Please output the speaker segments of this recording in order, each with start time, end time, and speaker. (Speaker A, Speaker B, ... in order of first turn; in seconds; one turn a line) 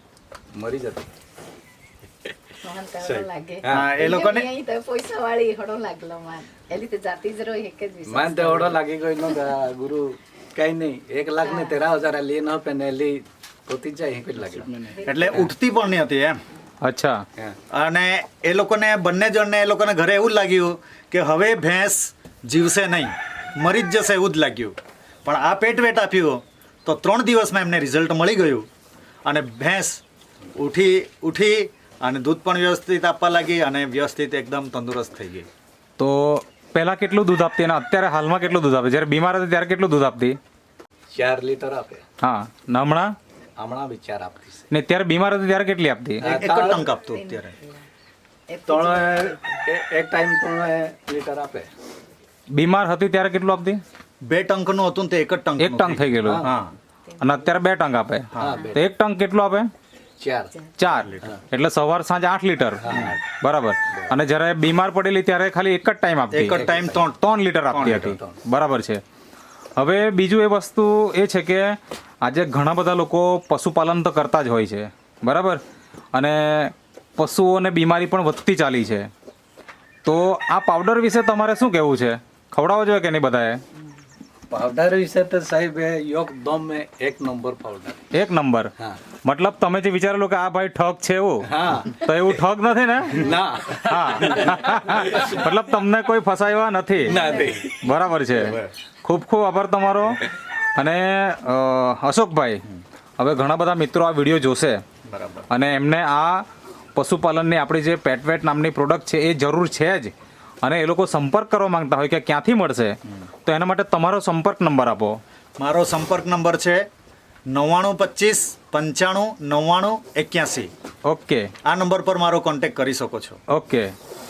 Speaker A: 0.6-1.1
Speaker B: 2.6-8.8
Speaker A: 3.0-3.9
Speaker C: 3.7-4.5
Speaker A: 8.1-15.4
Speaker B: 11.4-11.9
Speaker C: 14.9-16.4
Speaker D: 16.8-17.2
Speaker C: 17.7-28.7
Speaker C: 29.3-30.0
Speaker C: 30.6-35.5
Speaker D: 36.0-40.4
Speaker A: 41.1-42.0
Speaker D: 42.2-43.2
Speaker A: 43.6-44.7
Speaker D: 44.7-46.4
Speaker A: 46.2-46.9
Speaker C: 46.2-47.6
Speaker B: 46.9-47.8
Speaker B: 48.5-49.6
Speaker A: 48.7-51.7
Speaker D: 52.5-53.8
Speaker C: 54.3-56.7
Speaker D: 55.6-56.5
Speaker A: 56.2-56.5
Speaker D: 57.2-59.7
Speaker C: 58.3-58.6
Speaker A: 58.4-58.8
Speaker B: 58.5-58.8
Speaker A: 60.2-60.5
Speaker D: 60.8-69.0
Speaker A: 62.8-63.2
Speaker C: 66.3-68.2
Speaker A: 66.5-67.0
Speaker A: 68.0-68.4
Speaker D: 69.8-75.6
Speaker D: 76.1-79.1
Speaker D: 80.0-83.6
Speaker A: 84.5-88.0
Speaker D: 88.1-88.7
Speaker D: 89.2-102.6
Speaker A: 91.4-92.1
Speaker A: 93.2-95.3
Speaker A: 97.0-97.7
Speaker B: 97.2-97.5
Speaker C: 98.4-98.7
Speaker D: 103.2-104.8
Speaker C: 105.1-105.5
Speaker D: 105.5-106.5
Speaker D: 107.0-110.1
Speaker D: 110.6-115.2
Speaker C: 115.6-116.8
Speaker C: 117.5-120.7
Speaker D: 121.1-121.5
Speaker C: 121.7-123.4
Speaker D: 123.5-123.9